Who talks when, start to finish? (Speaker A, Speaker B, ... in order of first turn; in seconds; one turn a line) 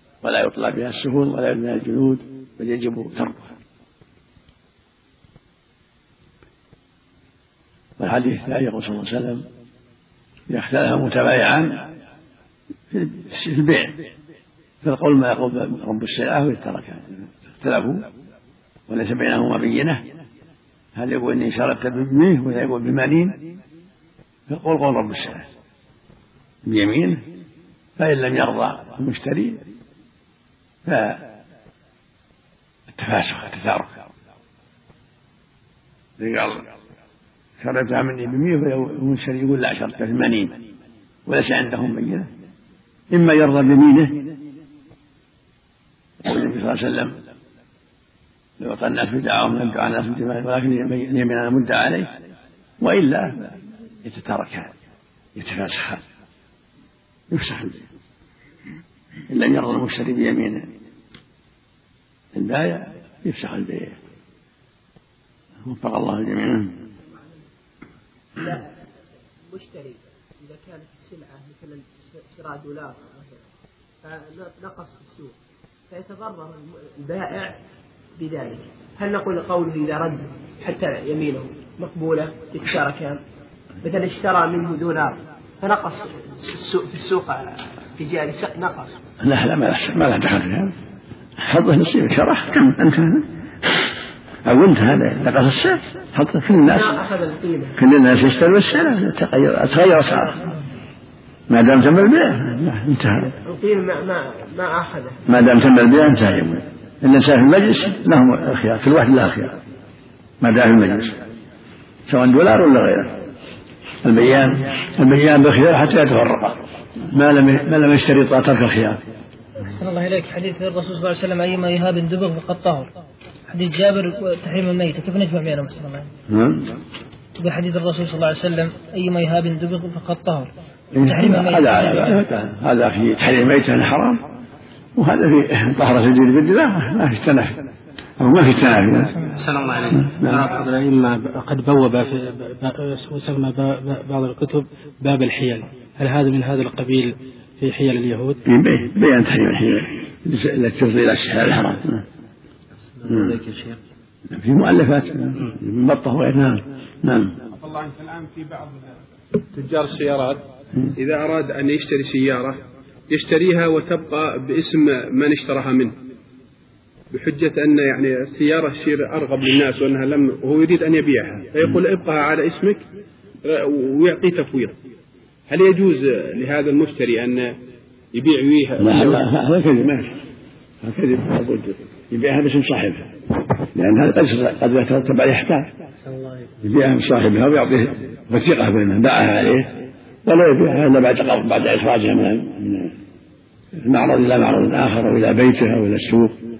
Speaker A: 0.2-3.5
Speaker A: 8.0-9.4
Speaker A: 10.5-11.9
Speaker A: 12.9-14.0
Speaker A: 14.8-18.1
Speaker A: 18.9-20.0
Speaker A: 20.9-23.4
Speaker A: 24.5-25.4
Speaker A: 26.6-27.2
Speaker A: 28.0-29.6
Speaker A: 30.9-31.3
Speaker A: 32.9-33.9
Speaker A: 36.2-36.6
Speaker A: 37.6-40.5
Speaker A: 41.2-42.3
Speaker A: 43.1-44.3
Speaker A: 46.2-47.1
Speaker A: 48.6-52.1
Speaker A: 52.8-54.7
Speaker A: 55.4-56.0
Speaker A: 57.3-57.9
Speaker A: 59.3-60.7
Speaker A: 62.3-64.0
Speaker A: 65.7-66.7
Speaker B: 67.1-67.4
Speaker B: 68.4-68.6
Speaker B: 69.5-73.4
Speaker B: 74.0-75.3
Speaker B: 75.9-77.6
Speaker B: 78.2-83.2
Speaker B: 83.8-88.9
Speaker A: 89.2-90.7
Speaker A: 91.4-93.8
Speaker A: 94.4-97.0
Speaker B: 96.7-97.8
Speaker A: 97.8-100.5
Speaker A: 101.5-103.3
Speaker B: 103.3-105.2
Speaker A: 105.3-109.6
Speaker A: 110.4-111.2
Speaker A: 112.1-113.2
Speaker A: 114.0-119.0
Speaker C: 119.6-122.9
Speaker C: 123.5-126.1
Speaker A: 126.3-126.7
Speaker C: 127.4-130.5
Speaker A: 130.9-134.2
Speaker C: 131.0-132.0
Speaker A: 135.0-137.6
Speaker A: 138.2-139.2
Speaker D: 139.7-148.4
Speaker A: 140.0-140.5
Speaker A: 148.4-152.0
Speaker A: 153.0-153.4
Speaker A: 154.3-157.3
Speaker E: 157.6-158.9
Speaker E: 159.5-160.4
Speaker E: 161.0-165.9
Speaker E: 167.1-172.8
Speaker E: 173.4-174.7
Speaker E: 175.5-177.5
Speaker E: 178.1-179.2
Speaker A: 178.8-180.2
Speaker A: 180.8-185.7
Speaker A: 186.6-192.9
Speaker A: 193.8-196.3